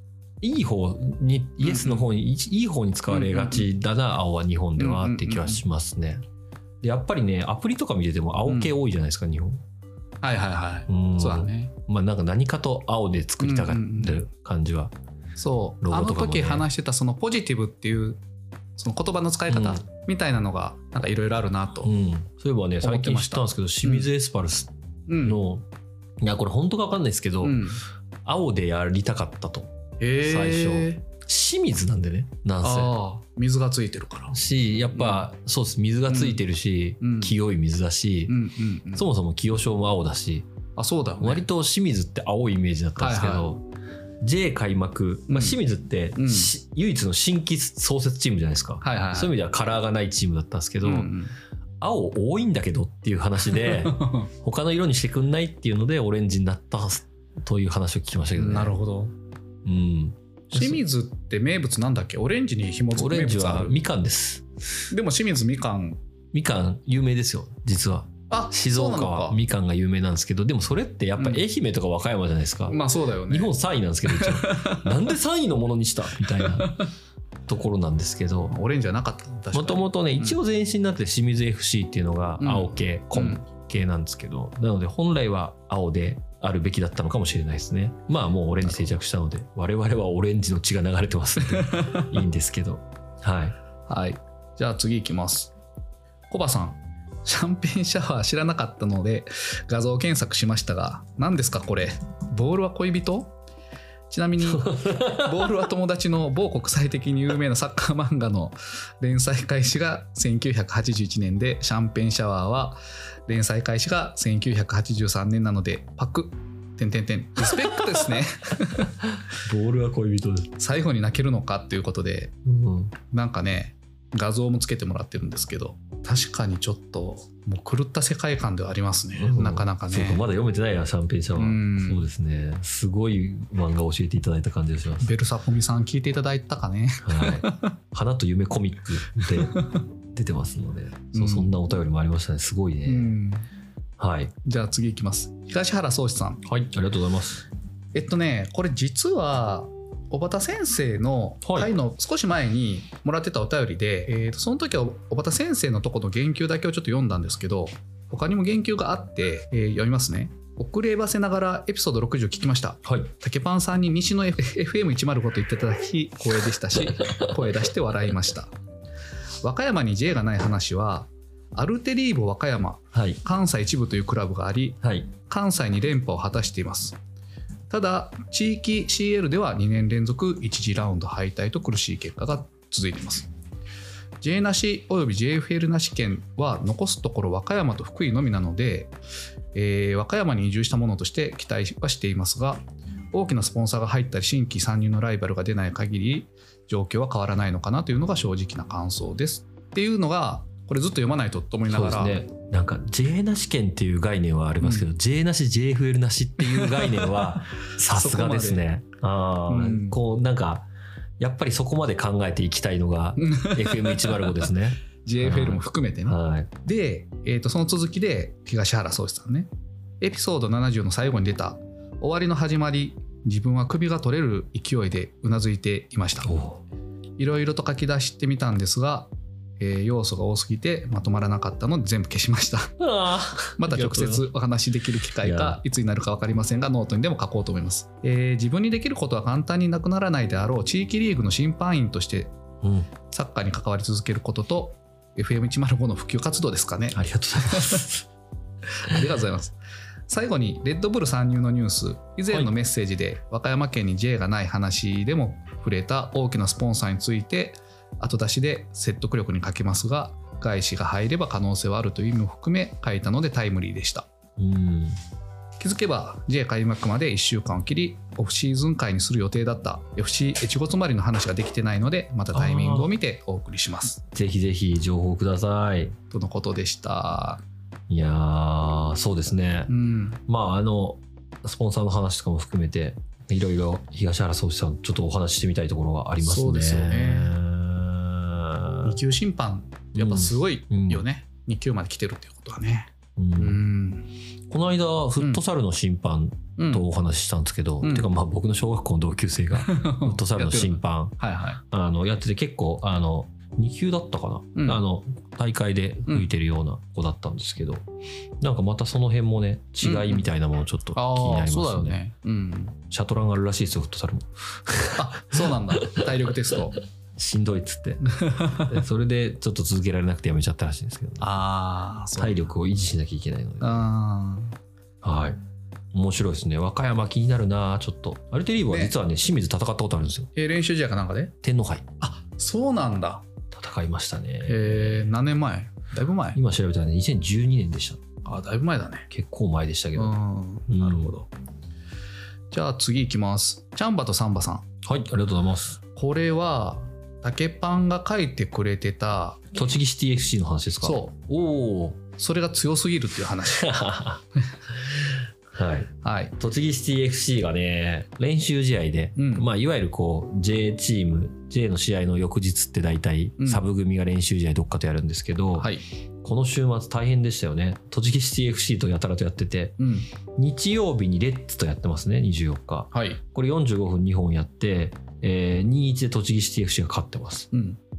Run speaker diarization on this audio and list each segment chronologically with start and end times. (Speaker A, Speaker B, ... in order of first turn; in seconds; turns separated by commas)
Speaker A: 0.4-6.2, Speaker B: 1.6-2.1, Speaker B: 3.1-3.7, Speaker B: 4.8-5.6, Speaker A: 6.8-9.6, Speaker B: 8.4-8.7, Speaker B: 10.2-11.7, Speaker A: 10.9-14.9, Speaker B: 13.4-14.2, Speaker B: 15.4-18.2, Speaker A: 15.8-16.7, Speaker B: 18.8-21.9, Speaker A: 19.5-19.8, Speaker A: 21.8-25.6, Speaker B: 22.8-24.1, Speaker B: 25.1-25.4, Speaker A: 26.2-27.6, Speaker B: 27.4-27.8, Speaker A: 28.2-32.9, Speaker B: 30.0-31.0, Speaker B: 32.6-34.4, Speaker A: 34.3-38.4, Speaker B: 34.9-35.3, Speaker B: 36.1-36.4, Speaker B: 37.0-37.3, Speaker B: 38.3-39.0, Speaker A: 38.9-40.5, Speaker B: 40.8-41.5, Speaker A: 41.2-43.6, Speaker B: 43.0-43.5, Speaker A: 44.2-51.1, Speaker B: 45.3-45.6, Speaker B: 46.1-46.5, Speaker B: 48.8-49.3, Speaker B: 50.8-51.3, Speaker A: 51.8-58.7, Speaker B: 53.6-54.3, Speaker B: 58.4-59.1, Speaker A: 59.6-60.8, Speaker B: 60.5-63.8, Speaker A: 62.9-64.5, Speaker B: 64.9-66.0, Speaker A: 66.3-76.8, Speaker B: 68.3-69.4, Speaker B: 71.2-71.4, Speaker B: 72.7-73.5, Speaker B: 74.0-74.9, Speaker B: 76.5-76.8, Speaker A: 77.5-78.5, Speaker B: 78.5-80.4, Speaker A: 79.5-93.5, Speaker B: 82.4-83.4, Speaker B: 91.5-92.1, Speaker B: 93.9-95.5, Speaker B: 96.3-103.3, Speaker B: 104.1-118.9, Speaker A: 104.5-105.2, Speaker A: 119.0-120.5, Speaker B: 120.6-122.3, Speaker A: 122.4-122.9, Speaker B: 123.1-130.2, Speaker A: 129.2-135.1, Speaker B: 131.4-132.1, Speaker B: 135.0-137.7, Speaker A: 137.0-139.6, Speaker A: 140.1-143.1, Speaker B: 141.1-141.5, Speaker B: 142.8-143.5, Speaker A: 144.0-144.3, Speaker B: 144.4-146.4, Speaker A: 146.4-147.5, Speaker B: 147.9-168.5, Speaker A: 151.4-151.7, Speaker A: 162.8-163.1, Speaker B: 169.4-177.0, Speaker A: 172.9-173.2, Speaker A: 174.8-175.1, Speaker B: 177.7-183.3, Speaker B: 184.2-188.9, Speaker B: 189.5-192.6, Speaker B: 193.1-202.2, Speaker A: 201.7-210.7, Speaker B: 204.6-204.8, Speaker B: 206.4-207.1, Speaker B: 207.9-208.7, Speaker B: 209.5-210.0, Speaker A: 211.2-216.5, Speaker B: 213.2-214.4, Speaker B: 215.0-219.5, Speaker B: 220.0-226.3, Speaker A: 226.2-226.6, Speaker B: 227.2-232.7, Speaker A: 232.8-234.3, Speaker B: 233.6-242.3, Speaker A: 235.2-235.6, Speaker A: 242.6-242.9, Speaker B: 243.1-247.8, Speaker A: 246.9-248.0, Speaker B: 248.9-249.5, Speaker B: 250.1-264.1, Speaker A: 264.4-265.0, Speaker B: 265.6-274.0, Speaker A: 272.3-272.9, Speaker A: 274.1-275.9, Speaker B: 276.1-277.4, Speaker A: 277.9-279.7, Speaker B: 279.7-280.2, Speaker A: 280.3-288.9, Speaker B: 286.2-287.4, Speaker B: 288.8-294.1, Speaker A: 289.9-291.0, Speaker A: 293.2-293.6, Speaker A: 294.5-301.2, Speaker B: 296.6-296.9, Speaker B: 297.8-298.1, Speaker B: 299.5-301.6, Speaker A: 301.7-307.8, Speaker B: 304.6-304.8, Speaker A: 308.4-312.0, Speaker B: 309.8-310.2, Speaker B: 310.9-312.8, Speaker A: 312.9-316.1, Speaker B: 314.9-316.8, Speaker A: 317.2-321.3, Speaker B: 318.1-318.7, Speaker B: 321.2-322.5, Speaker A: 322.2-323.8, Speaker B: 323.6-324.6, Speaker A: 325.0-325.4, Speaker A: 325.9-330.3, Speaker B: 328.7-328.9, Speaker B: 330.3-331.3, Speaker A: 331.4-331.9, Speaker B: 332.0-333.2, Speaker A: 333.5-335.1, Speaker B: 334.4-336.4, Speaker A: 336.3-338.0, Speaker B: 338.2-339.1, Speaker A: 339.1-340.1, Speaker B: 339.9-341.3, Speaker A: 340.7-341.1, Speaker B: 342.5-344.6, Speaker A: 344.8-345.8, Speaker B: 345.9-349.4, Speaker A: 349.5-352.0, Speaker B: 350.8-351.1, Speaker B: 352.2-353.7, Speaker A: 353.5-354.2, Speaker A: 355.5-365.7, Speaker B: 356.0-356.3, Speaker B: 359.1-359.5, Speaker B: 363.4-363.6, Speaker B: 365.6-365.8, Speaker A: 366.2-369.8, Speaker B: 369.8-370.1, Speaker A: 370.4-377.5, Speaker B: 372.9-373.2, Speaker B: 377.5-377.8